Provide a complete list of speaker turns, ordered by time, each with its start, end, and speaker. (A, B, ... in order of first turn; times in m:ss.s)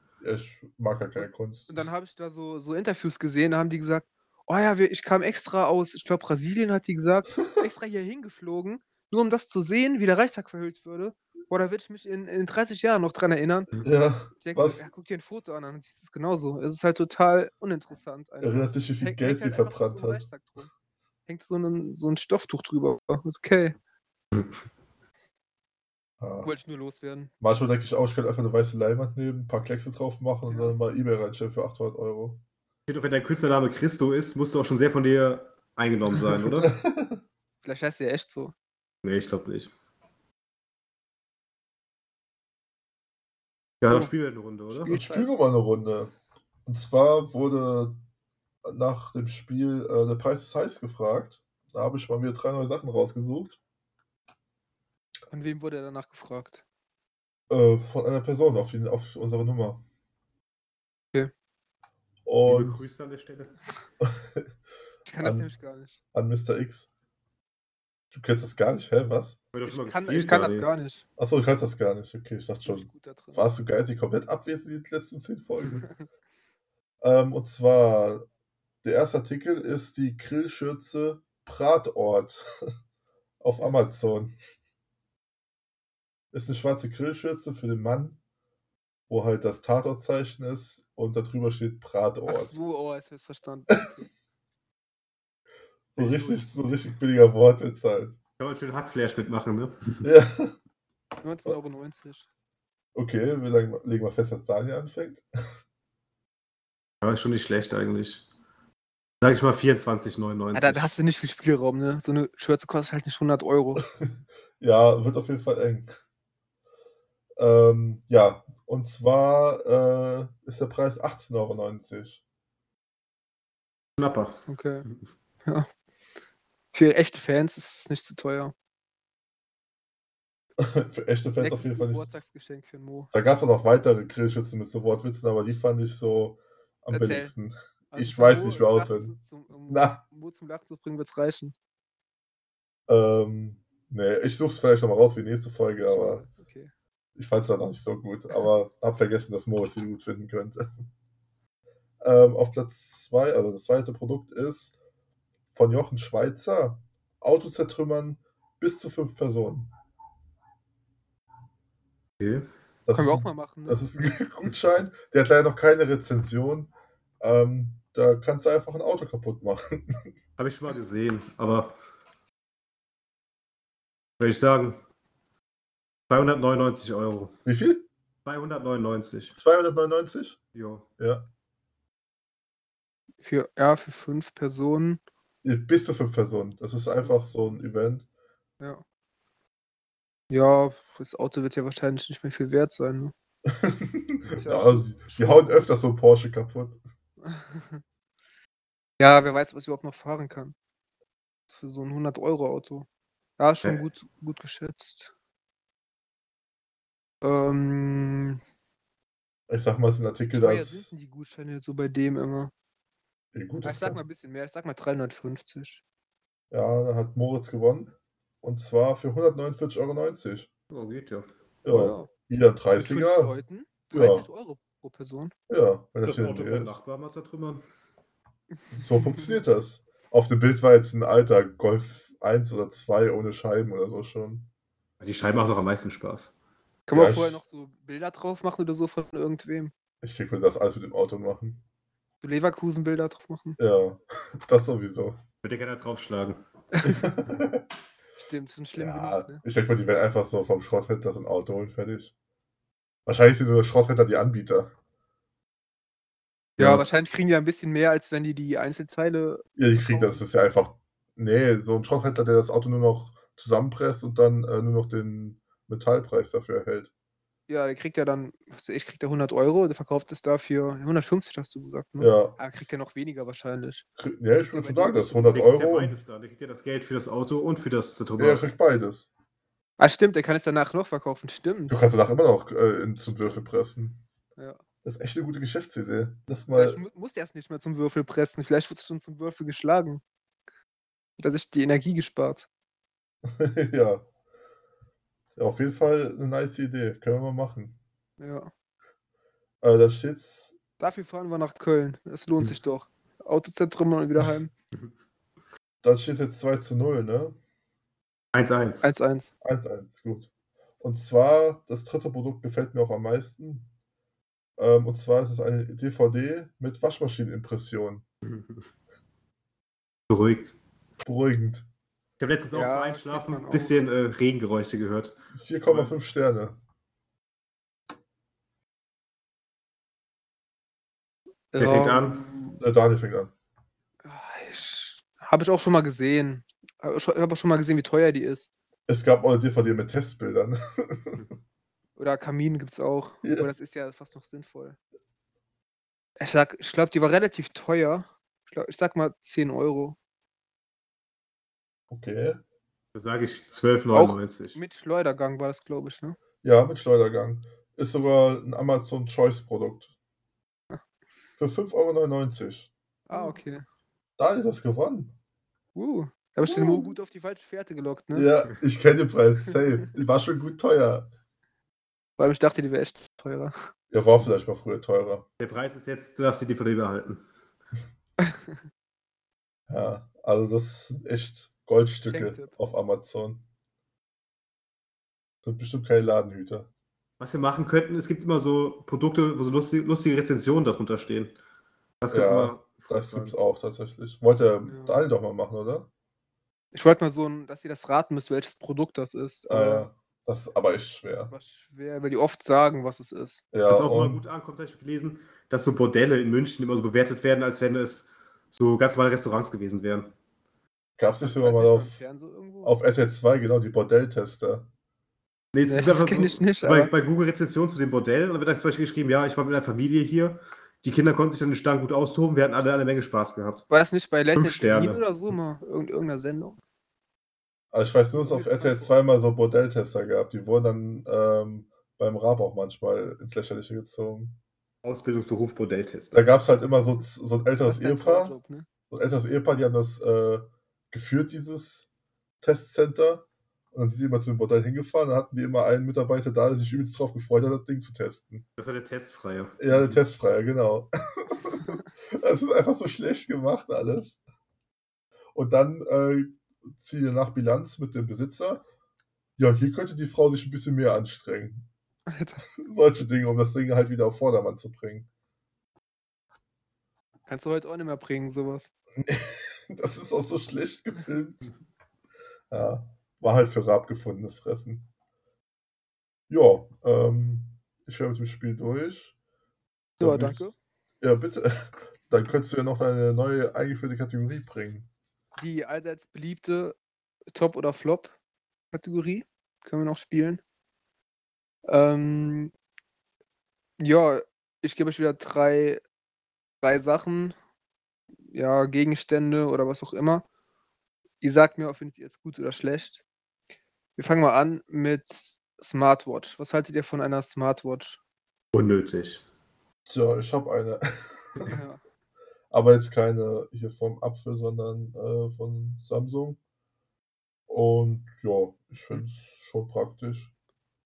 0:00.2-0:01.9 A
0:01.7-0:13.7 B
0:13.8-0:14.8 A
0:14.4-0:20.7 B
0:18.4-0:20.3 A
0:21.3-0:23.8 B
0:26.2-0:26.5 A
0:26.4-0:27.3 B
0:27.4-0:32.4 A
0:30.5-0:30.8 B
0:32.9-0:36.7 C
0:36.4-0:37.2 A
0:37.6-0:38.5 B
0:39.0-0:39.7 C
0:43.8-0:44.9 C
0:44.7-0:45.3 B
0:44.9-0:46.1 A
0:46.7-0:48.0 A
0:48.6-0:53.6 A
0:55.3-0:56.6 B
0:57.5-0:59.8 A
1:02.3-1:02.9 A
1:02.5-1:03.6 C
1:04.0-1:04.5 A
1:05.1-1:06.0 B
1:05.2-1:05.5 A
1:06.1-1:06.9 A
1:08.1-1:09.4 A
1:09.5-1:10.7 C
1:09.7-1:11.0 B
1:11.2-1:15.9 A
1:12.6-1:13.5 B
1:15.6-1:16.1 B
1:17.0-1:18.3 A
1:18.8-1:22.5 A
1:23.4-1:24.3 A
1:26.3-1:28.2 A
1:29.1-1:32.6 A
1:32.3-1:34.1 B
1:36.0-1:38.2 A
1:36.1-1:36.4 B
1:38.4-1:40.0 C
1:40.0-1:40.5 A
1:41.2-1:42.3 B
1:43.0-1:45.2 A
1:47.0-1:48.3 C
1:49.2-1:50.9 C
1:50.5-1:53.8 B
1:54.0-1:55.9 A
1:57.4-2:02.2 A
2:04.0-2:05.0 C
2:04.5-2:04.9 B
2:06.7-2:08.5 B
2:10.6-2:12.2 A
2:11.4-2:13.1 B
2:13.1-2:19.2 A
2:16.9-2:17.3 B
2:17.9-2:21.5 B
2:19.7-2:20.0 A
2:22.9-2:26.2 A
2:25.9-2:26.7 B
2:27.2-2:30.7 A
2:32.0-2:34.8 A
2:35.5-2:39.7 A
2:42.2-2:42.5 C
2:42.9-2:50.0 A
2:42.9-2:43.8 B
2:50.4-2:51.7 C
2:54.2-2:54.8 C
2:56.1-2:57.3 C
2:57.4-2:57.9 A
2:58.2-2:59.4 C
2:59.3-3:00.4 A
3:00.5-3:00.9 C
3:01.0-3:01.3 A
3:03.2-3:05.0 B
3:05.4-3:08.0 A
3:10.3-3:13.1 B
3:13.5-3:16.8 A
3:14.4-3:15.7 B
3:17.2-3:17.8 B
3:19.0-3:20.6 B
3:21.5-3:22.9 B
3:23.4-3:25.1 B
3:27.2-3:28.4 B
3:29.5-3:30.9 A
3:30.3-3:32.5 B
3:33.3-3:34.0 A
3:33.6-3:35.8 B
3:36.5-3:40.5 A
3:40.7-3:41.3 C
3:41.6-3:43.4 A
3:41.7-3:42.1 B
3:42.7-3:45.3 B
3:43.9-3:44.3 A
3:45.5-3:46.8 A
3:46.0-3:47.6 C
3:48.7-3:54.5 A
3:48.8-3:49.4 B
3:55.0-3:56.3 C
3:56.9-3:59.7 B
3:56.9-3:57.4 A
4:00.0-4:01.6 A
4:02.2-4:03.6 B
4:03.6-4:05.2 A
4:05.4-4:06.4 C
4:06.7-4:07.0 B
4:06.8-4:07.6 A
4:08.2-4:09.4 B
4:08.8-4:12.1 A
4:13.1-4:14.7 A
4:16.6-4:20.2 B
4:16.6-4:17.0 A
4:19.6-4:26.9 A
4:27.5-4:33.8 B
4:32.0-4:32.4 A
4:34.0-4:36.0 A
4:34.5-4:35.4 B
4:35.3-4:38.5 C
4:38.2-4:39.1 A
4:39.8-4:41.8 B
4:41.7-4:44.0 A
4:44.8-4:46.8 A
4:46.5-4:50.0 B
4:51.2-4:52.5 B
4:53.2-4:54.0 A
4:55.4-4:57.8 A
4:58.2-4:58.5 B
4:59.6-5:00.6 A
5:00.8-5:04.5 B
5:05.8-5:07.4 A
5:08.3-5:08.9 C
5:08.8-5:09.3 B
5:09.4-5:10.3 A
5:10.8-5:13.7 A
5:14.6-5:18.0 A
5:18.2-5:18.6 C
5:20.1-5:20.6 C
5:21.0-5:21.7 A
5:22.2-5:26.0 C
5:22.5-5:23.8 B
5:25.4-5:26.6 A
5:31.5-5:32.6 B
5:31.6-5:32.2 C
5:32.6-5:33.3 A
5:34.0-5:38.5 B
5:38.9-5:41.3 A
5:42.0-5:44.8 B
5:43.2-5:43.5 A
5:46.2-5:50.0 B
5:51.9-5:52.4 A
5:52.9-5:54.6 C
5:53.9-5:56.2 B
5:56.4-5:59.9 A
6:01.4-6:03.3 A
6:03.1-6:03.6 B
6:04.2-6:05.2 A
6:05.8-6:08.3 B
6:06.5-6:06.9 A
6:08.1-6:11.1 A
6:12.2-6:13.6 B
6:13.9-6:15.3 A
6:15.4-6:17.2 C
6:18.2-6:18.6 B
6:19.7-6:23.4 A
6:22.1-6:22.6 B
6:25.4-6:26.7 A
6:27.2-6:31.4 C
6:32.0-6:33.4 C
6:32.1-6:35.9 A
6:34.7-6:35.0 B
6:36.7-6:39.9 B
6:39.5-6:41.3 A
6:41.3-6:43.4 B
6:43.5-6:44.2 A
6:43.7-6:50.1 C
6:51.0-6:52.0 A
6:51.2-6:52.8 B
6:52.6-6:54.7 A
6:55.5-7:03.7 C
6:55.7-6:56.9 B
7:03.7-7:06.6 B
7:04.4-7:05.0 C
7:07.7-7:14.4 A
7:08.1-7:08.9 B
7:14.8-7:16.3 C
7:16.1-7:18.4 A
7:17.6-7:18.7 B
7:18.9-7:21.9 A
7:22.4-7:28.4 A
7:28.6-7:30.0 C
7:29.6-7:34.2 A
7:35.3-7:38.6 A
7:39.4-7:41.7 A
7:42.1-7:42.4 B
7:42.6-7:45.1 A
7:47.3-7:48.7 B
7:49.0-7:51.5 A
7:52.5-7:54.9 A
7:56.3-7:59.2 A
8:00.0-8:00.6 B
8:00.0-8:00.4 A
8:01.0-8:04.9 A
8:05.4-8:06.8 B
8:07.3-8:08.1 B
8:08.7-8:10.4 B
8:11.7-8:12.5 B
8:13.8-8:15.8 B
8:16.6-8:17.4 B
8:18.3-8:20.2 B
8:21.2-8:23.0 B
8:24.0-8:28.0 B
8:28.5-8:29.2 C
8:29.9-8:31.6 A
8:31.4-8:31.8 B
8:32.5-8:36.4 A
8:37.5-8:40.3 A